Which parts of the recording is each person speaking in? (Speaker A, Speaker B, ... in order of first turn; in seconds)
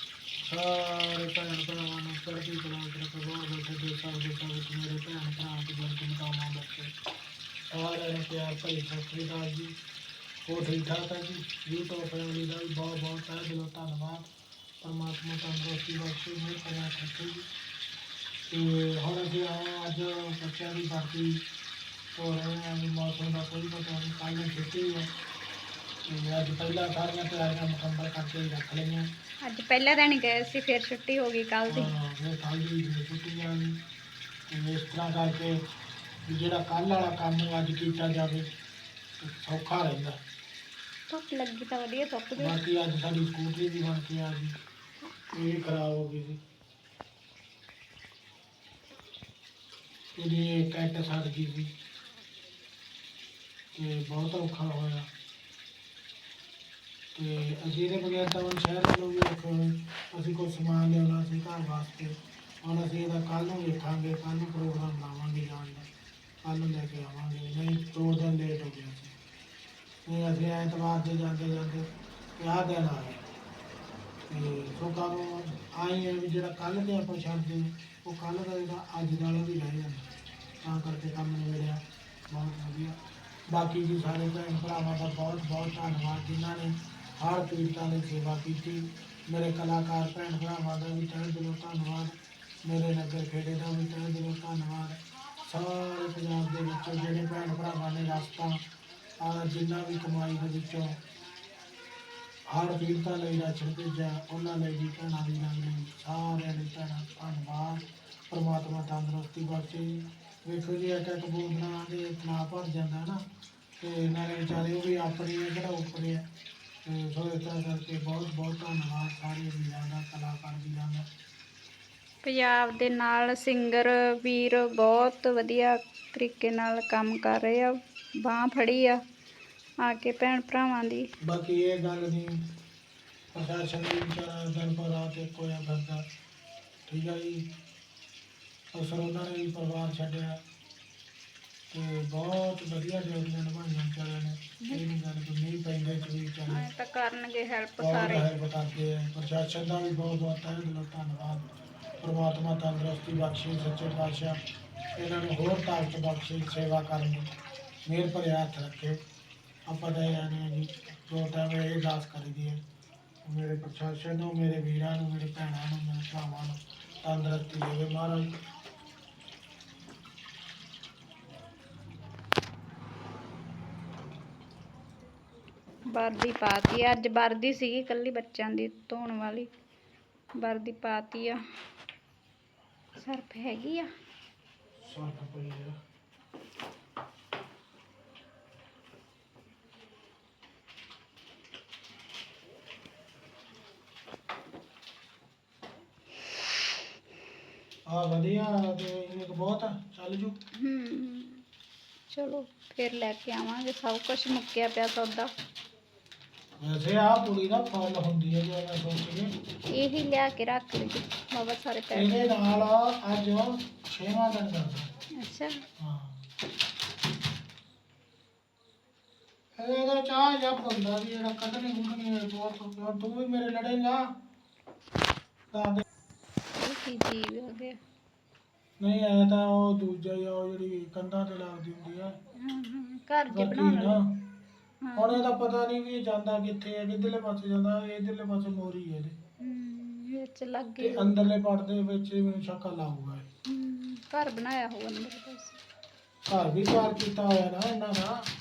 Speaker A: 0.4-6.9, 7.7-9.7, 10.4-14.3, 14.8-17.5, 18.5-21.4, 22.1-25.1, 26.1-29.1, 31.7-33.8, 34.5-35.6, 36.3-38.5, 39.2-40.2, 42.4-44.5, 45.3-46.4, 50.1-51.7, 53.7-55.1, 57.1-65.9, 66.4-69.1, 70.1-73.2, 74.3-80.1, 80.6-83.0, 83.5-92.1, 92.7-98.6, 99.2-101.0, 102.5-113.2, 113.8-116.2, 116.8-121.0, 131.2-132.4, 133.3-136.0, 136.9-137.4, 138.7-140.4, 141.7-146.6, 147.8-151.4, 152.0-154.4, 155.0-157.3, 157.9-159.0, 159.7-162.6, 163.2-168.3, 184.8-185.8, 197.9-200.4, 206.6-209.3, 211.9-214.9, 215.8-216.1, 219.6-224.1, 225.5-225.8, 228.8-232.1, 233.3-234.1, 234.9-239.2, 240.8-243.3, 246.3-248.1
Speaker B: 29.4-31.9, 41.1-42.5, 74.3-74.6, 122.2-129.0, 129.8-131.1, 146.5-148.3, 175.9-179.5, 180.4-181.4, 183.0-183.9, 200.6-201.4, 202.1-205.3, 209.7-212.3, 215.2-215.6, 226.6-227.8, 232.3-234.0, 234.8-235.2, 239.4-241.1, 243.4-245.6